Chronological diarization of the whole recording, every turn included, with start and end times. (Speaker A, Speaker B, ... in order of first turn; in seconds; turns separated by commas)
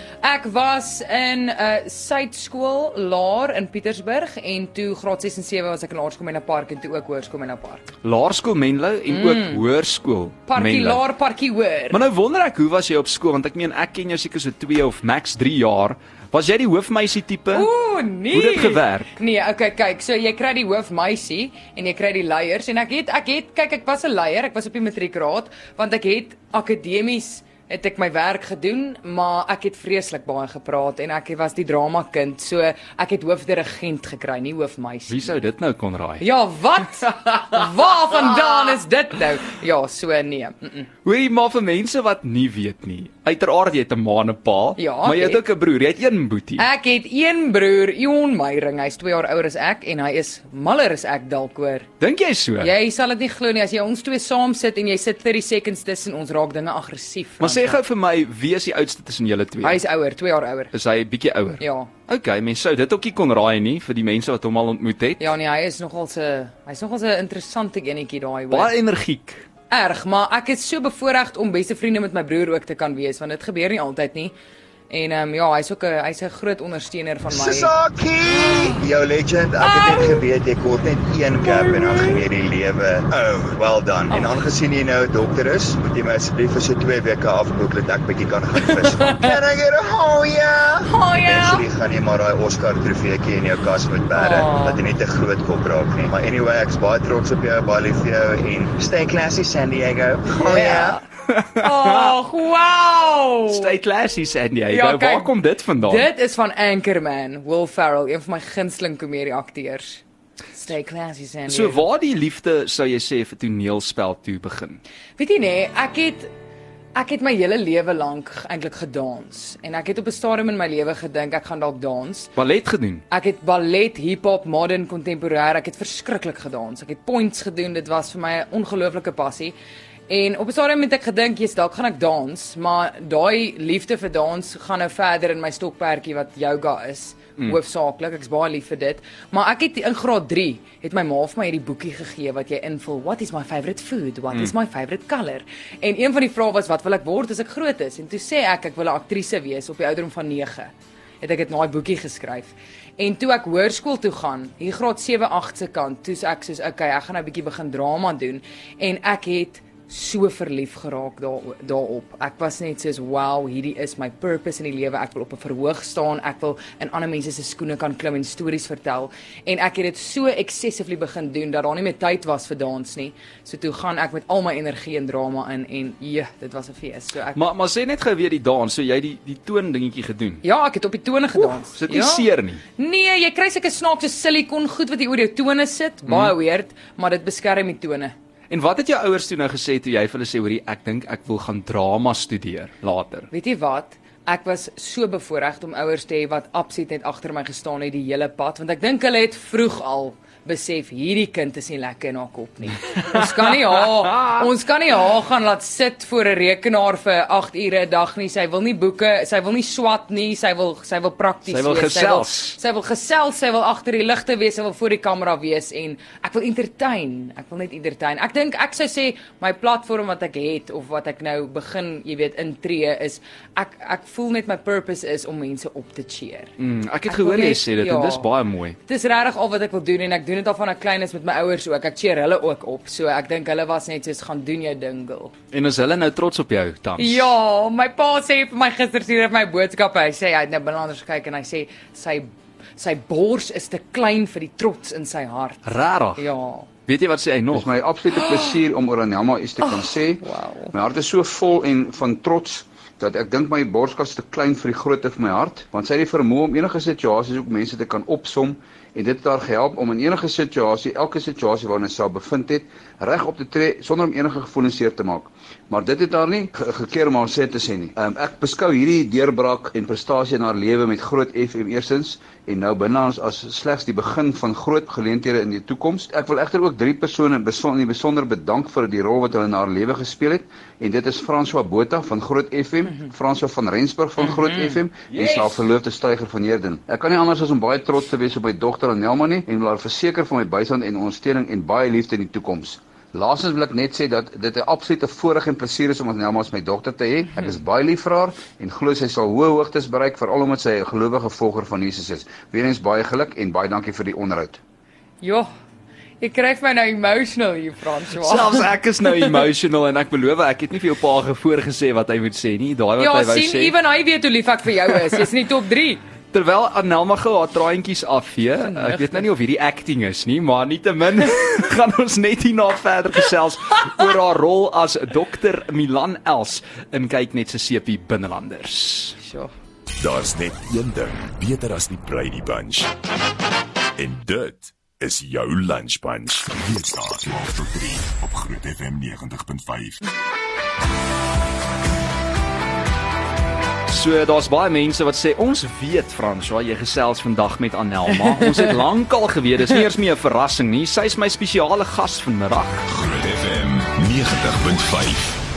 Speaker A: 0.2-7.9, Speaker B: 8.0-11.0, Speaker A: 9.1-9.6, Speaker A: 10.5-12.0, Speaker B: 11.9-17.7, Speaker A: 17.5-35.2, Speaker B: 18.3-19.1, Speaker B: 35.1-36.2, Speaker A: 36.2-40.9, Speaker B: 37.0-38.7, Speaker B: 41.0-46.7, Speaker A: 44.8-45.4, Speaker A: 46.6-51.9, Speaker B: 52.0-52.7, Speaker A: 52.6-57.8, Speaker B: 57.4-59.8, Speaker A: 59.6-60.7, Speaker B: 60.7-65.3, Speaker A: 61.6-61.9, Speaker A: 65.2-68.7, Speaker B: 68.5-69.5, Speaker A: 69.7-74.3, Speaker A: 74.9-77.7, Speaker C: 77.3-101.0, Speaker A: 78.4-78.8, Speaker A: 79.6-80.2, Speaker A: 81.4-82.2, Speaker A: 84.1-84.4, Speaker A: 88.7-89.3, Speaker A: 90.8-91.6, Speaker A: 94.2-94.8, Speaker A: 100.3-101.0, Speaker B: 101.3-102.1, Speaker A: 101.6-103.7, Speaker B: 103.5-106.1, Speaker A: 104.7-110.0, Speaker A: 110.5-111.8, Speaker B: 111.5-114.8, Speaker A: 115.2-116.3, Speaker A: 116.9-122.3, Speaker B: 122.3-123.0, Speaker A: 123.1-129.5, Speaker A: 130.1-177.4, Speaker B: 177.3-180.4, Speaker A: 180.4-188.1, Speaker B: 181.4-182.6, Speaker B: 186.1-186.3, Speaker B: 188.5-193.3, Speaker A: 193.3-226.5, Speaker B: 202.9-204.5, Speaker B: 211.5-212.6, Speaker B: 226.6-228.8, Speaker A: 227.1-228.3, Speaker A: 228.8-235.3, Speaker B: 235.5-237.3, Speaker A: 237.0-245.6, Speaker B: 245.6-246.2, Speaker A: 246.2-246.7, Speaker B: 246.9-247.7, Speaker D: 247.5-304.6, Speaker A: 248.1-248.6, Speaker A: 249.6-250.7, Speaker A: 284.2-284.8, Speaker B: 285.1-285.5, Speaker A: 305.2-305.5, Speaker A: 306.2-309.3, Speaker B: 308.1-313.7, Speaker A: 313.0-316.0, Speaker B: 316.3-329.1, Speaker A: 318.6-319.3, Speaker A: 329.2-329.5, Speaker E: 330.0-332.9, Speaker E: 333.9-340.0, Speaker B: 343.9-352.8, Speaker E: 352.9-355.4